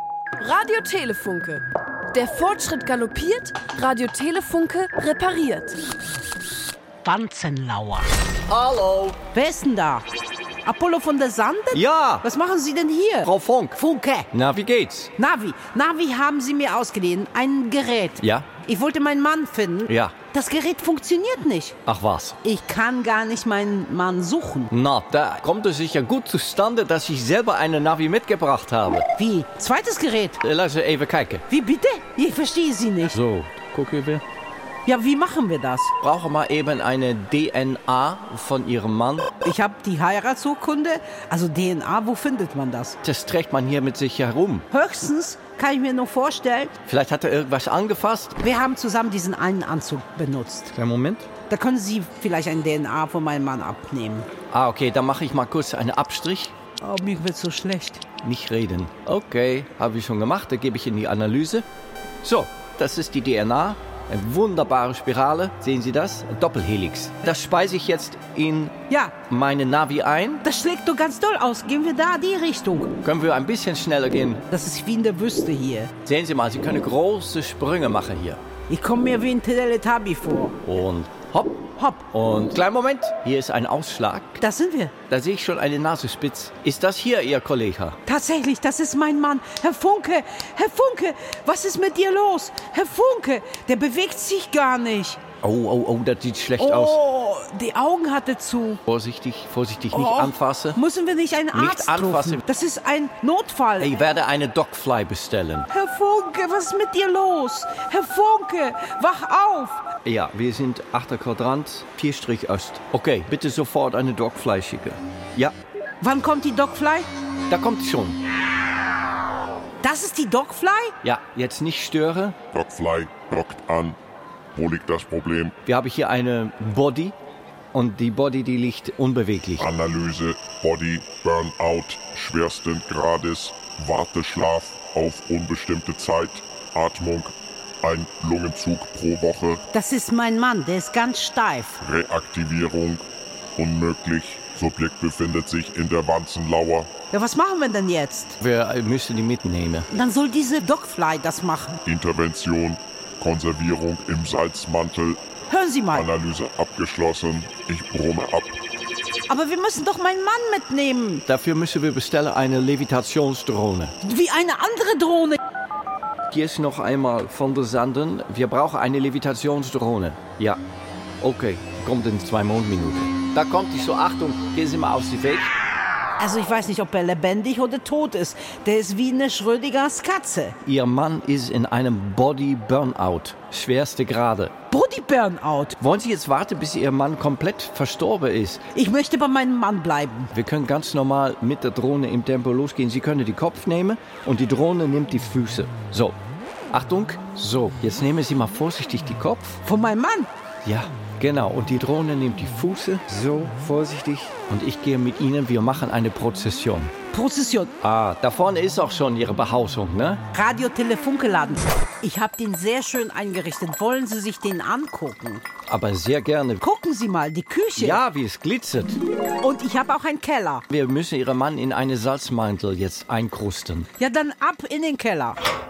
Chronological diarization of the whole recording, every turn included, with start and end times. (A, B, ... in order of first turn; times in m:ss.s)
0:00.4-0:05.7 A
0:07.0-0:08.1 B
0:08.5-0:09.2 C
0:09.3-0:10.0 B
0:10.6-0:14.3 B
0:11.7-0:12.2 C
0:13.2-0:13.8 C
0:14.3-0:15.1 C
0:15.2-0:21.8 B
0:18.2-0:18.5 C
0:19.9-0:20.2 C
0:21.8-0:22.4 C
0:22.4-0:24.7 B
0:24.7-0:29.1 C
0:29.2-0:30.4 B
0:30.4-0:31.4 C
0:31.5-0:33.2 B
0:33.1-0:34.2 C
0:34.8-0:35.9 B
0:36.0-0:39.3 C
0:39.4-0:43.0 B
0:43.0-0:44.6 C
0:44.7-0:46.7 B
0:46.8-0:48.4 C
0:48.4-0:50.7 B
0:50.7-0:51.3 C
0:51.5-0:54.3 B
0:54.5-0:56.5 C
0:56.8-0:58.0 B
0:58.2-1:01.6 C
1:02.2-1:10.4 C
1:08.9-1:09.1 B
1:10.4-1:12.9 B
1:13.0-1:14.4 C
1:14.5-1:15.9 B
1:16.0-1:18.4 C
1:18.7-1:20.6 B
1:20.6-1:24.4 C
1:21.8-1:22.0 B
1:24.4-1:24.9 B
1:25.1-1:28.0 C
1:28.0-1:35.2 B
1:35.4-1:37.0 C
1:36.6-1:38.8 B
1:38.9-1:40.8 C
1:39.9-1:44.0 B
1:41.5-1:42.4 C
1:43.8-1:45.7 C
1:45.7-1:49.8 B
1:50.0-1:55.5 C
1:56.0-1:57.1 B
1:57.5-1:58.2 C
1:59.8-2:00.9 B
2:01.0-2:02.4 C
2:02.5-2:04.0 D
2:04.5-2:05.6 D
2:05.6-2:07.1 C
2:07.7-2:09.7 C
2:09.6-2:19.6 D
2:19.7-2:21.8 B
2:21.8-2:23.0 D
2:23.6-2:26.9 D
2:27.1-2:28.4 B
2:28.4-2:29.9 C
2:29.9-2:31.8 B
2:31.8-2:35.2 D
2:35.5-2:36.1 B
2:35.9-2:38.6 D
2:39.3-2:41.2 B
2:41.2-2:43.9 C
2:44.0-2:45.4 B
2:46.3-2:50.6 C
2:51.2-2:55.5 C
2:56.2-3:00.6 B
3:00.6-3:04.5 C
3:04.7-3:05.8 B
3:05.8-3:08.6 C
3:08.7-3:10.3 B
3:10.3-3:16.2 C
3:16.7-3:19.6 C
3:19.6-3:20.3 B
3:20.6-3:26.9 C
3:27.1-3:27.7 B
3:27.8-3:30.2 C
3:30.3-3:35.4 B
3:35.7-3:36.6 C
3:36.6-3:38.0 B
3:37.8-3:39.0 C
3:39.4-3:40.6 B
3:40.7-3:43.9 C
3:44.0-3:45.4 B